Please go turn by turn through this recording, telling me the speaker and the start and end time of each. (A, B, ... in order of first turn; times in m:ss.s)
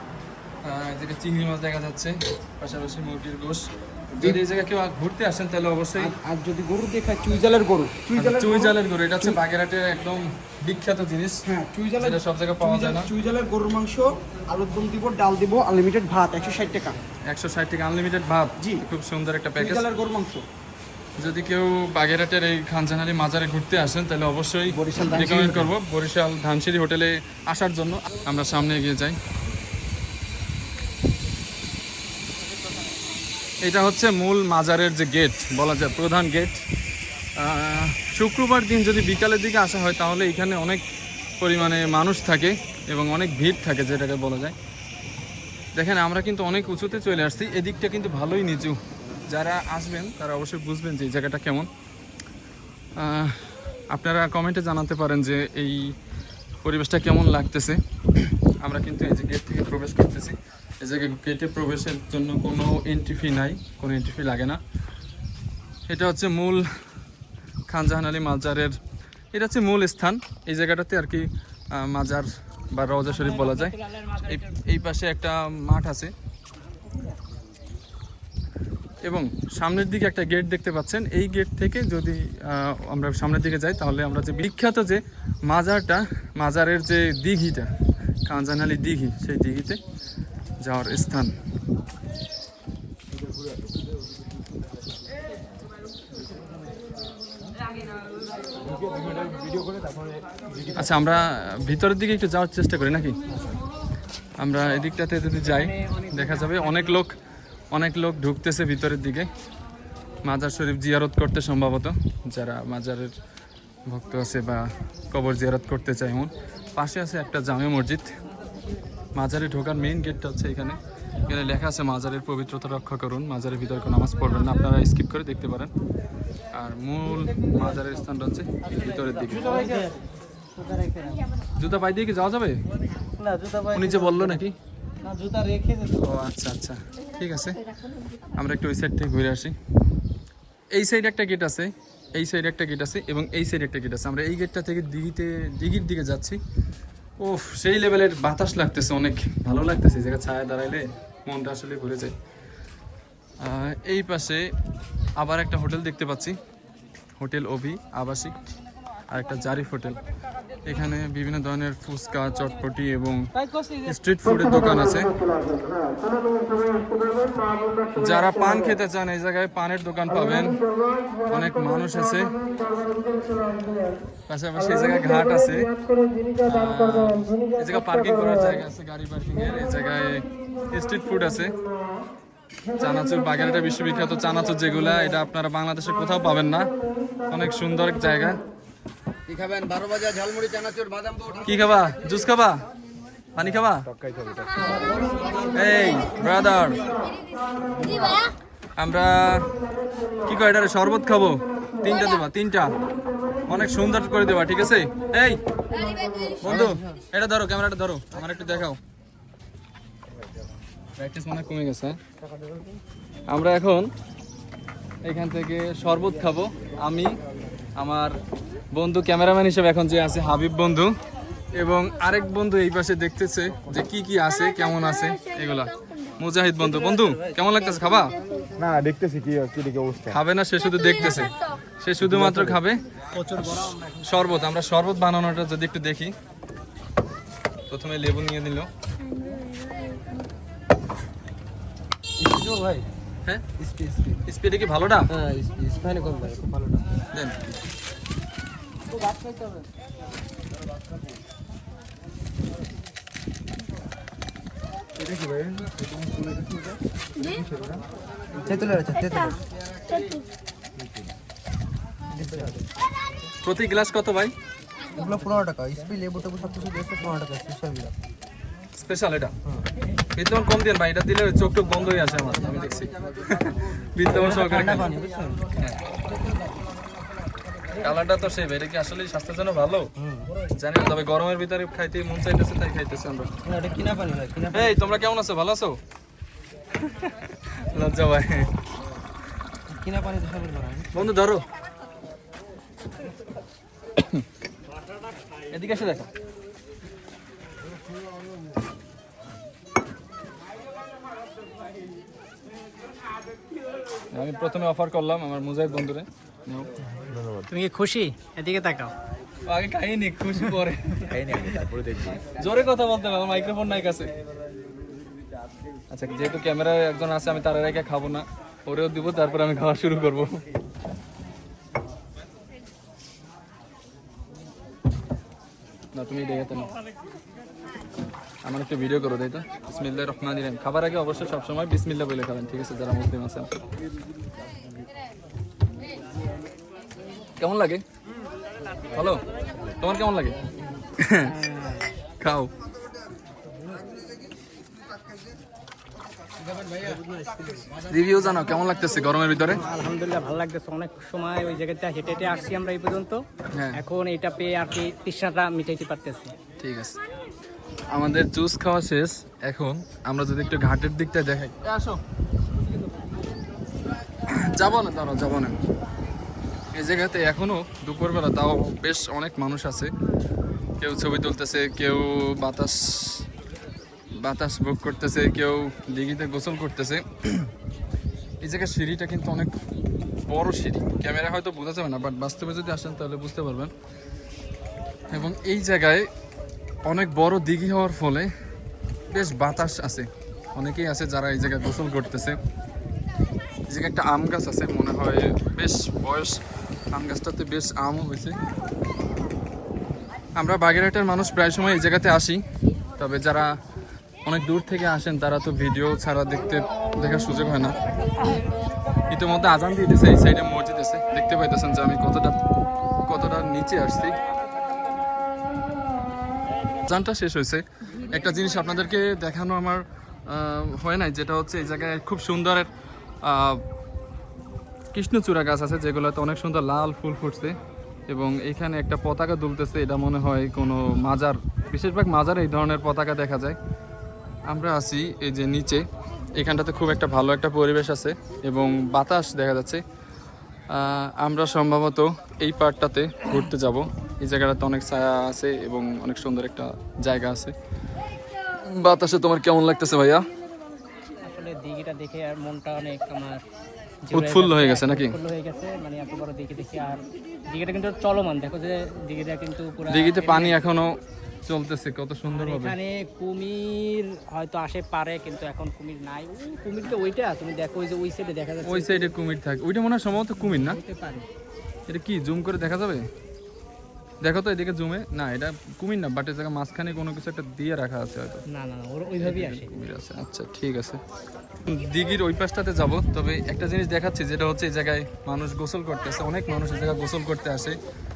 0:00.6-0:06.1 A
0:04.1-0:04.4 B
0:06.0-0:09.4 B
0:08.2-0:11.4 A
0:11.4-0:17.0 B
0:12.0-0:13.1 A
0:17.2-0:19.8 A
0:18.6-0:18.8 B
0:19.6-0:20.4 B
0:21.2-0:29.2 A
0:24.7-0:25.7 B
0:33.6-0:36.6 A
0:37.4-0:40.8 A
0:41.4-0:44.5 A
0:45.7-0:51.7 A
0:53.0-0:56.0 A
0:56.6-1:04.6 A
1:05.9-1:06.7 A
1:07.7-1:08.8 A
1:09.3-1:16.1 A
1:13.1-1:14.6 C
1:19.0-1:27.7 A
1:28.2-1:29.8 A
1:30.6-1:31.3 A
1:39.4-1:39.9 B
1:40.7-1:43.2 A
1:44.4-1:47.2 A
1:45.5-1:46.9 C
1:47.7-1:49.3 A
1:50.2-1:53.1 A
1:53.8-1:58.2 A
1:59.1-2:05.7 A
2:06.5-2:09.7 A
2:09.3-2:10.0 B
2:10.6-2:11.2 B
2:11.6-2:12.6 A
2:13.2-2:14.4 B
2:13.7-2:14.6 A
2:15.1-2:15.8 B
2:15.9-2:17.6 A
2:18.3-2:19.6 A
2:20.7-2:26.4 A
2:27.2-2:32.1 A
2:33.4-2:34.5 A
2:35.2-2:36.4 A
2:37.2-2:38.5 A
2:39.1-2:40.0 A
2:40.6-2:45.2 A
2:47.9-2:50.6 A
2:51.3-2:52.3 A
2:54.3-2:55.7 A
2:56.4-3:01.5 A
3:02.8-3:06.7 A
3:07.3-3:08.4 A
3:09.3-3:11.5 B
3:11.4-3:12.6 A
3:13.3-3:13.9 A
3:15.5-3:16.8 A
3:18.8-3:19.5 A
3:20.2-3:22.8 A
3:23.5-3:25.4 A
3:26.4-3:28.8 A
3:26.5-3:26.9 B
3:31.0-3:32.0 A
3:33.3-3:33.9 A
3:35.0-3:37.2 A
3:37.7-3:38.2 A
3:38.7-3:40.9 A
3:41.5-3:48.2 A
3:48.6-3:50.0 D
3:50.0-3:52.8 A
3:52.1-3:52.5 B
3:53.2-3:53.8 B
3:53.9-3:56.1 A
3:57.7-3:58.7 A
3:59.1-4:00.2 D
4:02.2-4:02.9 B
4:03.6-4:04.2 B
4:04.2-4:05.1 A
4:05.1-4:06.8 B
4:15.1-4:16.8 B
4:17.3-4:17.7 B
4:18.4-4:19.4 B
4:22.1-4:22.6 B
4:23.4-4:24.3 A
4:24.9-4:27.9 B
4:28.7-4:29.3 A
4:30.1-4:34.9 A
4:34.1-4:35.4 B
4:37.7-4:39.9 A
4:40.0-4:40.3 B
4:40.5-4:43.3 A
4:43.4-4:44.8 B
4:44.5-4:45.8 A
4:46.8-4:48.5 A
4:49.7-4:50.9 B
4:50.9-4:51.4 A
4:55.5-4:56.1 A
5:04.1-5:06.7 A
5:07.1-5:07.4 D
5:07.5-5:08.9 C
5:09.4-5:11.5 A
5:11.1-5:12.2 D
5:12.2-5:14.1 A
5:15.9-5:20.4 A
5:25.9-5:26.7 A
5:28.4-5:33.5 A
5:37.4-5:37.8 A
5:38.9-5:40.4 A
5:41.0-5:41.4 A
5:41.2-5:41.9 C
5:42.2-5:42.5 A
5:46.6-5:47.7 B
5:47.8-5:49.6 A
5:49.5-5:56.3 C
5:53.5-5:53.8 A
5:56.6-5:57.0 A
5:57.9-6:02.0 A
6:04.3-6:05.6 A
6:06.7-6:09.9 A
6:10.8-6:13.3 A
6:14.2-6:17.5 A
6:18.4-6:19.5 A
6:20.3-6:23.7 A
6:25.1-6:26.1 A
6:26.8-6:28.3 A
6:29.1-6:32.4 A
6:33.7-6:36.4 A
6:36.9-6:38.4 A
6:40.4-6:42.4 A
6:43.0-6:43.5 A
6:44.2-6:47.8 A
6:49.1-6:52.4 A
6:53.1-6:54.2 A
6:56.8-7:02.7 A
7:03.2-7:03.6 A
7:04.9-7:07.6 A
7:08.1-7:13.6 A
7:14.5-7:19.8 A
7:20.7-7:27.5 A
7:28.6-7:30.3 A
7:31.2-7:33.4 C
7:34.0-7:40.6 C
7:34.1-7:35.2 A
7:39.9-7:42.7 A
7:42.3-7:49.1 C
7:48.6-7:50.8 A
7:50.4-7:51.3 C
7:51.9-7:53.1 A
7:54.2-7:58.4 A
7:58.5-7:59.7 C
7:59.2-8:01.0 A
8:01.6-8:07.8 A